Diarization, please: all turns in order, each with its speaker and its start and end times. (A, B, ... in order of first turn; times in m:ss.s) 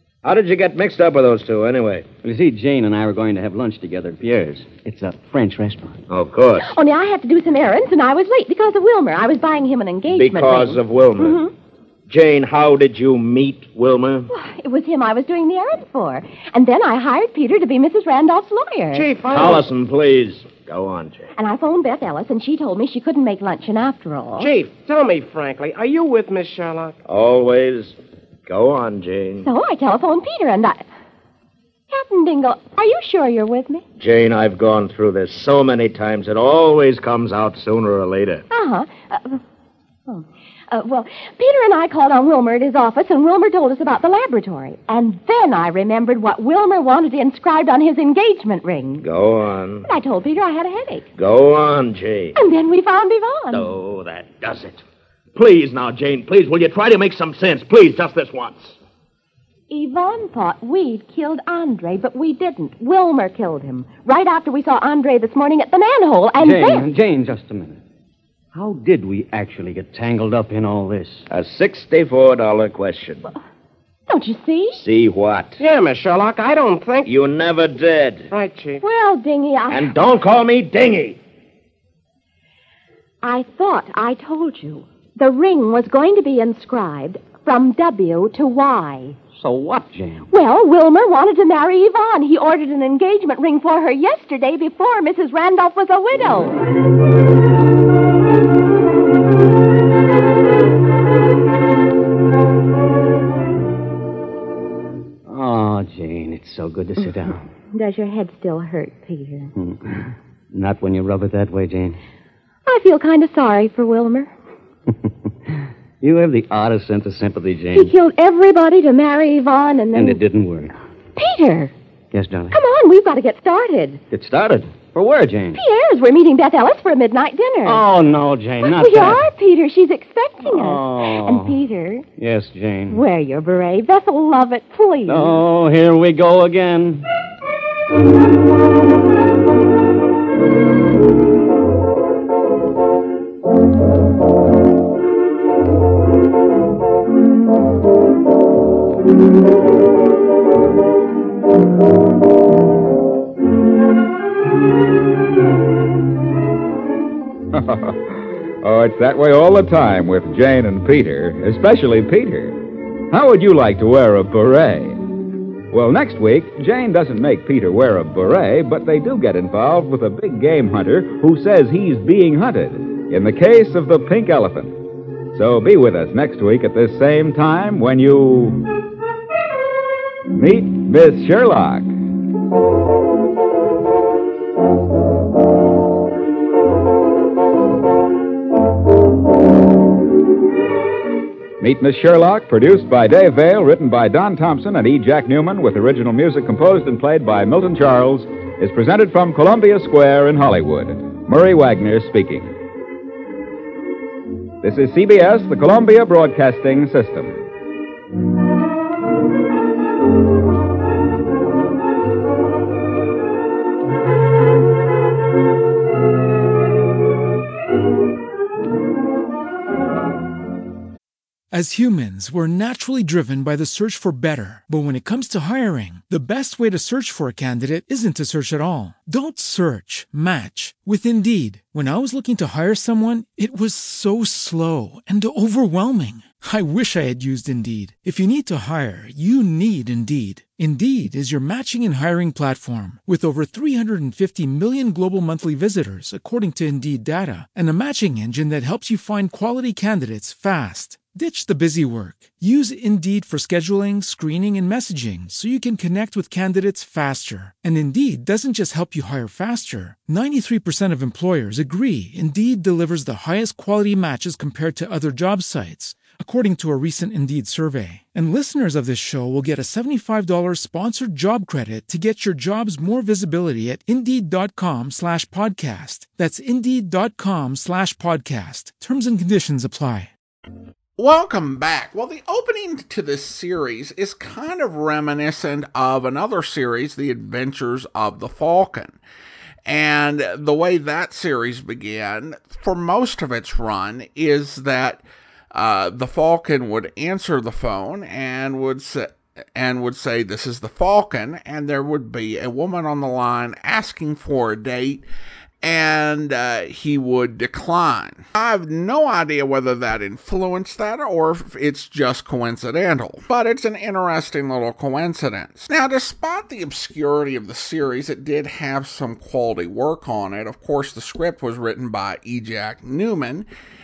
0:00.2-0:02.0 A
0:02.2-0:06.0 B
0:06.1-0:06.7 A
0:06.6-0:11.5 C
0:10.1-0:11.5 A
0:12.1-0:14.3 A
0:14.3-0:19.1 C
0:18.9-0:19.7 D
0:19.3-0:21.3 A
0:21.4-0:24.5 C
0:24.4-0:27.0 D
0:27.1-0:29.5 A
0:29.4-0:30.9 C
0:31.9-0:33.8 C
0:34.0-0:38.4 A
0:38.5-0:39.4 C
0:40.1-0:49.1 C
0:49.0-0:49.9 A
0:49.8-0:51.1 C
0:51.2-0:52.4 A
0:52.4-0:53.7 C
0:53.5-0:54.8 A
0:55.3-0:58.8 A
0:59.7-1:06.9 C
1:06.4-1:07.8 B
1:08.5-1:11.3 B
1:11.3-1:13.3 A
1:14.1-1:14.8 C
1:14.8-1:15.6 A
1:15.6-1:17.1 D
1:17.1-1:18.3 A
1:18.3-1:18.8 D
1:18.8-1:19.9 C
1:19.7-1:21.2 A
1:23.2-1:29.2 C
1:29.3-1:30.3 B
1:30.3-1:36.6 C
1:45.3-1:47.5 B
1:47.7-1:49.5 C
1:49.6-1:52.0 B
1:52.7-1:54.3 C
1:55.1-1:57.9 B
1:57.7-2:00.2 C
1:59.9-2:00.8 B
2:01.2-2:01.7 C
2:02.1-2:02.6 B
2:02.5-2:04.0 C
2:04.1-2:05.6 B
2:05.6-2:07.8 C
2:07.6-2:09.2 B
2:08.6-2:12.1 C
2:10.4-2:11.6 B
2:12.2-2:13.0 B
2:12.9-2:15.4 C
2:15.1-2:17.1 B
2:37.5-2:45.0 E
2:45.7-2:58.6 E
3:00.3-3:01.9 E
3:11.6-3:22.6 E
3:24.6-3:27.4 E
3:41.5-4:40.1 F
4:41.0-4:49.0 G
4:49.7-5:05.0 G
5:05.6-5:23.5 G